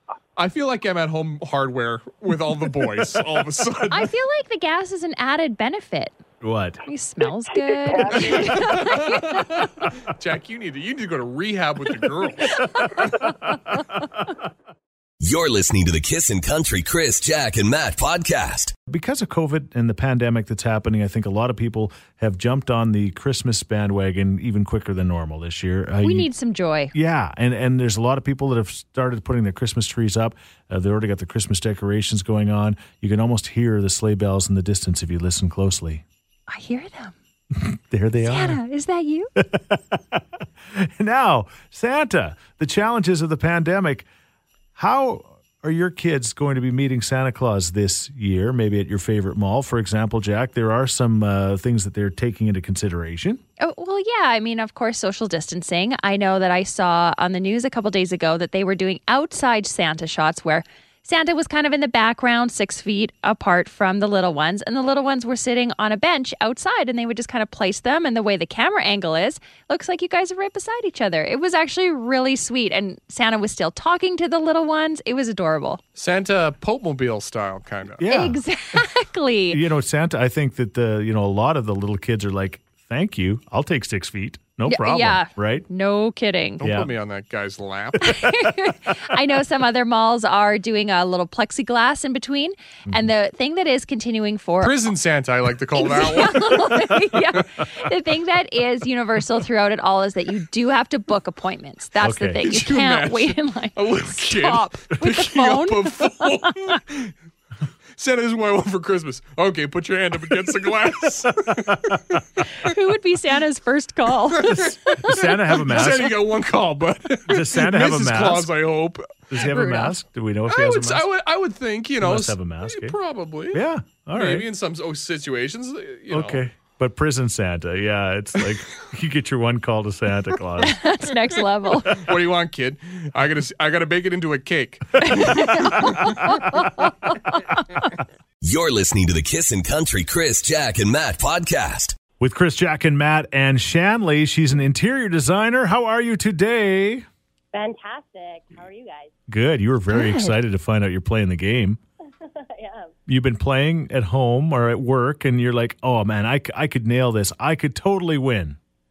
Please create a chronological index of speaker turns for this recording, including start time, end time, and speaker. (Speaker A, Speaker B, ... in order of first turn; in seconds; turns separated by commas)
Speaker A: 0.3-4.1, Speaker B: 3.9-6.1, Speaker C: 6.4-6.8, Speaker B: 6.8-9.4, Speaker A: 8.1-12.6, Speaker B: 12.7-13.2, Speaker D: 15.2-18.7, Speaker C: 18.9-26.3, Speaker B: 26.0-26.9, Speaker C: 26.9-36.0, Speaker B: 36.5-37.1, Speaker C: 37.5-38.6, Speaker B: 38.2-39.3, Speaker C: 39.4-44.0, Speaker C: 44.8-53.4, Speaker B: 53.6-75.8, Speaker A: 76.0-78.0, Speaker C: 78.0-78.4, Speaker B: 78.1-79.6, Speaker C: 79.5-85.7, Speaker B: 84.7-86.6, Speaker A: 86.6-88.3, Speaker C: 86.6-86.9, Speaker B: 88.0-94.7, Speaker A: 94.6-97.1, Speaker B: 95.8-106.8, Speaker C: 102.0-102.4, Speaker A: 102.4-107.1, Speaker A: 108.0-112.0, Speaker C: 111.7-112.1, Speaker B: 112.5-115.6, Speaker A: 114.3-119.2, Speaker C: 115.0-116.2, Speaker C: 117.3-118.5, Speaker C: 119.3-121.1, Speaker B: 119.3-120.0, Speaker A: 120.5-126.4, Speaker C: 122.0-123.0, Speaker C: 123.5-124.5, Speaker C: 126.1-130.8, Speaker B: 130.6-132.1, Speaker A: 131.8-136.1, Speaker B: 135.0-137.9, Speaker D: 138.4-142.0, Speaker C: 142.2-147.1, Speaker E: 147.5-149.1, Speaker C: 149.3-151.8, Speaker B: 149.9-150.3, Speaker E: 152.5-152.9, Speaker C: 153.1-158.6